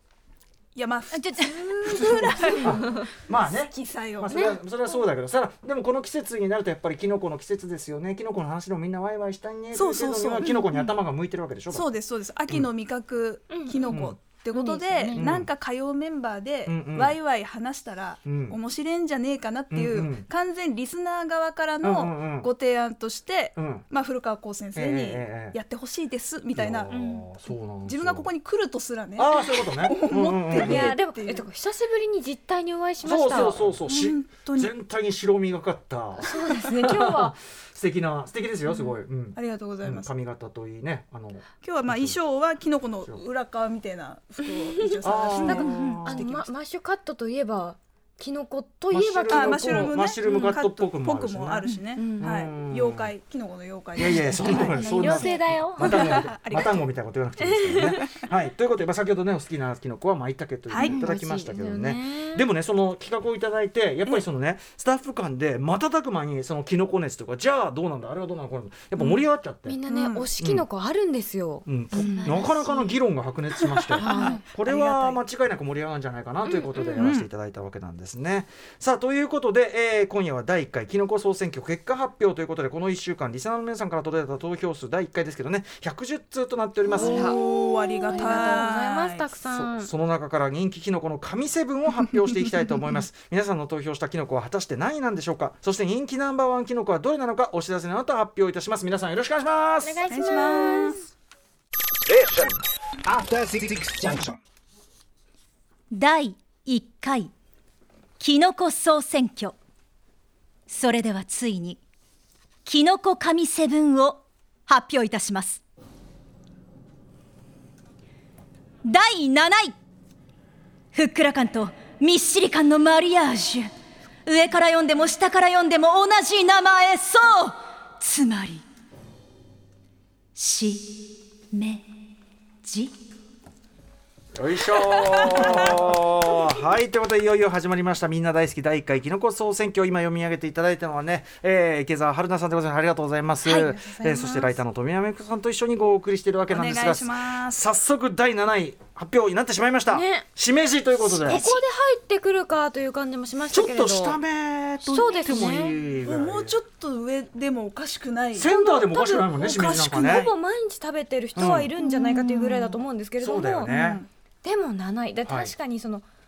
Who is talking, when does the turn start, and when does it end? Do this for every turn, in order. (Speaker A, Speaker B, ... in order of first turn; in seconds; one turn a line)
Speaker A: 0.7-3.1
Speaker B: 1.1-2.0
Speaker C: 1.9-11.8
Speaker D: 2.6-3.0
Speaker A: 3.7-4.6
Speaker A: 9.7-10.9
Speaker A: 11.7-26.9
Speaker D: 13.5-14.0
Speaker C: 13.9-14.2
Speaker D: 14.5-15.2
Speaker C: 15.1-15.5
Speaker C: 16.6-17.1
Speaker C: 18.2-18.6
Speaker C: 19.7-20.2
Speaker C: 21.8-22.5
Speaker C: 23.6-23.9
Speaker C: 24.7-25.6
Speaker C: 26.5-28.3
Speaker D: 26.9-27.2
Speaker A: 27.9-31.4
Speaker C: 29.1-30.9
Speaker D: 30.5-33.6
Speaker C: 33.0-42.2
Speaker A: 33.8-34.7
Speaker D: 36.2-37.3
Speaker A: 39.3-40.1
Speaker A: 41.6-46.5
Speaker C: 45.0-46.3
Speaker D: 45.4-50.5
Speaker C: 48.9-53.1
Speaker A: 49.3-55.3
Speaker D: 51.9-52.3
Speaker C: 54.0-69.8
Speaker D: 54.5-56.2
Speaker A: 55.8-56.9
Speaker D: 57.4-58.2
Speaker A: 60.7-61.0
Speaker D: 60.8-62.5
Speaker D: 69.0-72.4
Speaker A: 69.9-70.3
Speaker C: 70.4-70.6
Speaker C: 71.7-87.3
Speaker B: 71.9-72.9
Speaker A: 73.7-75.2
Speaker D: 74.0-74.4
Speaker D: 76.4-77.0
Speaker A: 76.9-77.3
Speaker A: 86.9-89.3
Speaker D: 87.0-89.9
Speaker C: 89.5-100.0
Speaker D: 99.8-101.0
Speaker A: 100.1-101.0
Speaker E: 102.1-104.4
Speaker B: 105.9-107.3
Speaker B: 108.2-109.5
Speaker B: 110.7-111.8
Speaker B: 112.6-115.6
Speaker B: 118.8-119.7
Speaker B: 120.9-123.7
Speaker B: 124.2-128.6
Speaker B: 130.3-131.9
Speaker B: 132.6-132.9
Speaker C: 134.3-151.5
Speaker A: 135.0-135.5
Speaker D: 143.4-144.6
Speaker A: 146.5-147.6
Speaker D: 149.9-150.2
Speaker D: 151.2-154.2
Speaker B: 151.3-151.6
Speaker C: 153.5-156.6
Speaker A: 154.8-158.5
Speaker D: 154.9-155.8
Speaker C: 158.3-160.3
Speaker D: 158.5-163.7
Speaker A: 159.3-160.3
Speaker C: 161.3-161.7
Speaker A: 161.8-162.8
Speaker C: 163.2-164.0
Speaker A: 163.7-164.1
Speaker D: 164.4-166.0
Speaker C: 165.2-165.5